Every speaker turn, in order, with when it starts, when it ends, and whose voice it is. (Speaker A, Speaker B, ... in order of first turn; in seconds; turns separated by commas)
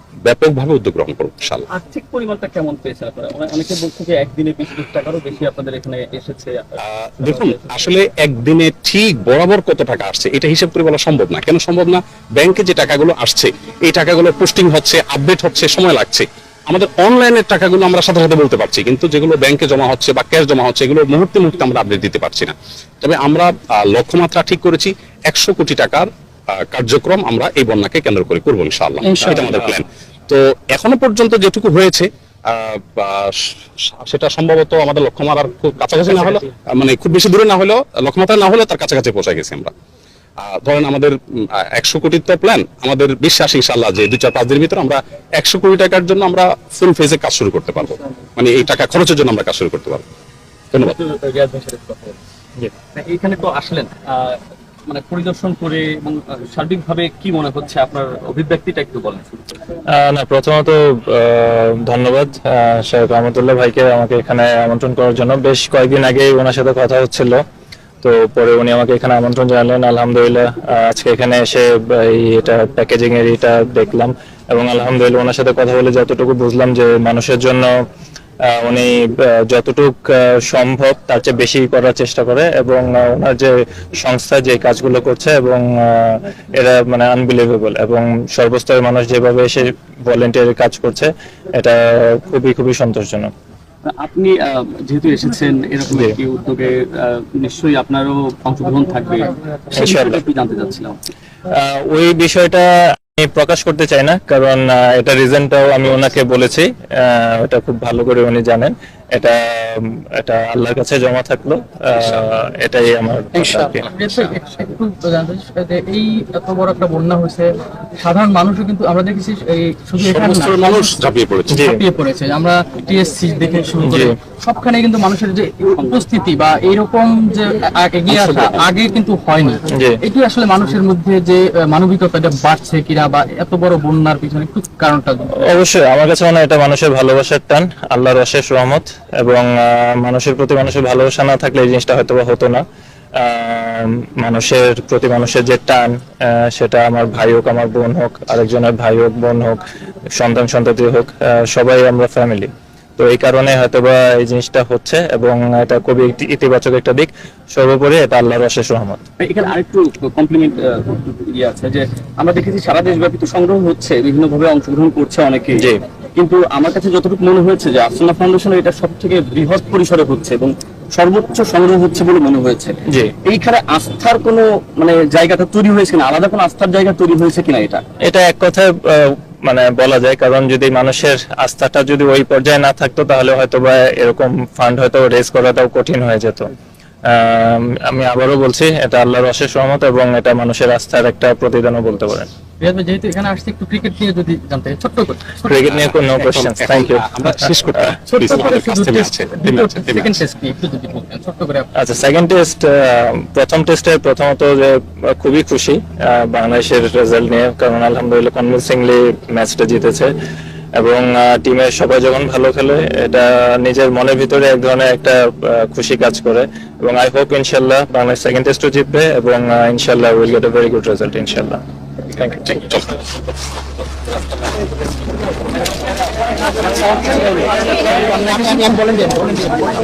Speaker A: 0.3-1.7, Speaker B: 1.7-6.7, Speaker A: 6.8-39.7, Speaker B: 7.2-7.8, Speaker A: 40.4-50.0, Speaker B: 50.8-52.2, Speaker B: 52.9-59.3, Speaker C: 59.9-67.4, Speaker C: 68.0-77.7, Speaker C: 78.5-93.3, Speaker B: 94.0-101.0, Speaker C: 99.7-100.2, Speaker C: 101.5-113.8, Speaker A: 111.9-112.2, Speaker A: 113.4-113.9, Speaker D: 113.9-121.0, Speaker A: 120.0-121.7, Speaker C: 121.5-121.8, Speaker D: 121.6-135.3, Speaker C: 123.8-124.2, Speaker A: 128.1-128.7, Speaker C: 129.7-130.0, Speaker C: 135.4-142.6, Speaker C: 143.2-149.6, Speaker C: 150.2-159.0, Speaker B: 159.2-177.8, Speaker C: 178.1-186.5, Speaker C: 187.1-192.3, Speaker D: 192.6-195.6, Speaker C: 195.4-197.8, Speaker A: 195.7-200.2, Speaker D: 198.1-201.7, Speaker C: 201.8-210.1, Speaker C: 210.7-221.6, Speaker A: 222.3-222.9